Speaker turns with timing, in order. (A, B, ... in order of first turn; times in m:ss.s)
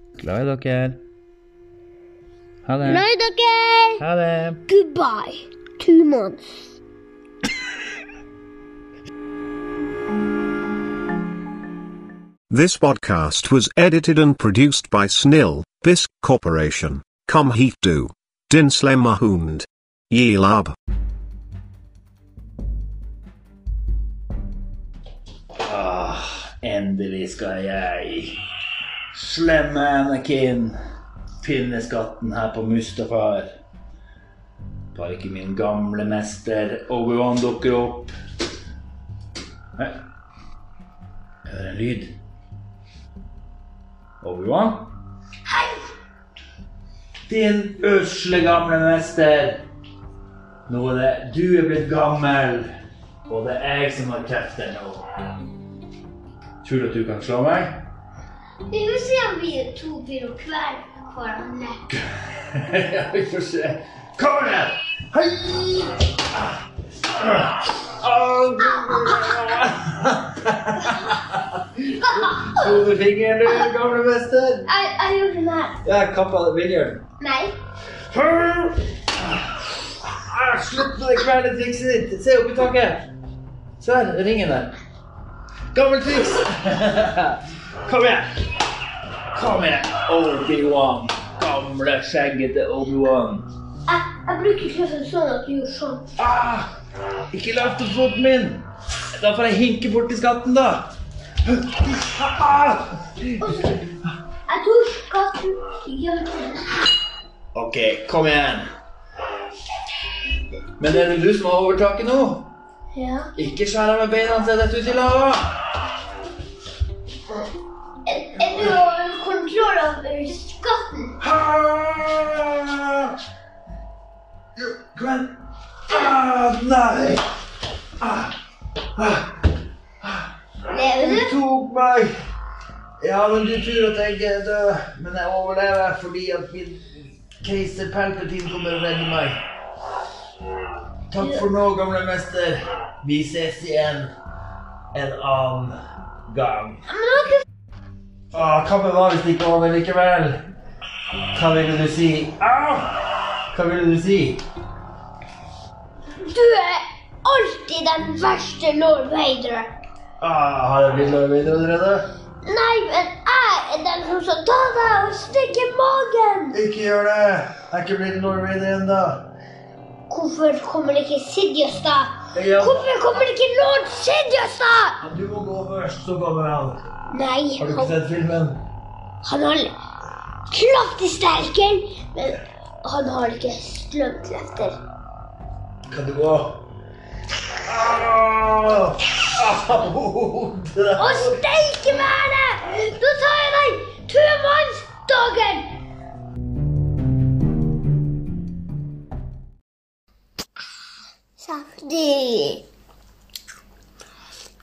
0:00.2-0:01.0 A
0:02.6-0:03.0 A
0:02.8-0:04.0 B
0:04.0-0:04.6 A
0:04.7-0:06.7 B
0:12.5-0:20.7 C
0:25.6-0:28.4 A
0:29.1-0:30.8 A
0:31.4-0:33.5 A
0:34.9-0:38.1 A
0:39.8-0:40.0 A
0:41.4-0:42.2 A
0:44.2-0:44.9 A
0:45.4-0:45.8 B
0:47.3-0:49.7 A
0:50.7-0:52.7 A
0:53.2-0:55.1 A
0:56.6-0:57.8 A
0:58.7-1:01.8 B
1:01.9-1:06.4 A
1:07.1-1:14.7 A
1:11.9-1:12.7 B
1:14.6-1:15.8 B
1:15.8-1:17.0 A
1:17.2-1:17.6 B
1:18.1-1:23.1 A
1:23.8-1:24.8 A
1:25.7-1:28.6 A
1:29.3-1:33.5 A
1:33.9-1:36.1 B
1:36.2-1:36.7 A
1:37.3-1:43.4 A
1:43.4-1:43.9 B
1:44.5-1:46.9 B
1:47.5-1:48.7 A
1:50.8-1:52.5 A
1:52.9-1:53.3 B
1:53.4-1:55.6 A
1:58.0-2:01.2 B
2:01.2-2:03.2 A
2:04.6-2:05.4 A
2:05.9-2:07.3 A
2:08.0-2:08.4 A
2:09.0-2:10.3 A
2:10.7-2:11.4 B
2:10.9-2:12.2 A
2:13.0-2:19.4 A
2:21.1-2:24.1 A
2:24.9-2:26.9 A
2:26.9-2:27.4 B
2:28.3-2:30.4 A
2:31.3-2:34.4 A
2:36.2-2:39.8 B
2:40.2-2:42.1 A
2:42.4-2:46.6 B
2:46.5-2:49.2 A
2:50.1-2:55.0 B
2:52.3-2:53.3 A
2:55.0-2:56.9 A
2:57.1-2:57.9 B
2:57.6-2:58.6 A
2:59.2-2:59.8 B
3:00.5-3:04.8 B
3:05.9-3:06.6 A
3:07.6-3:11.4 A
3:10.9-3:15.8 B
3:21.4-3:22.6 B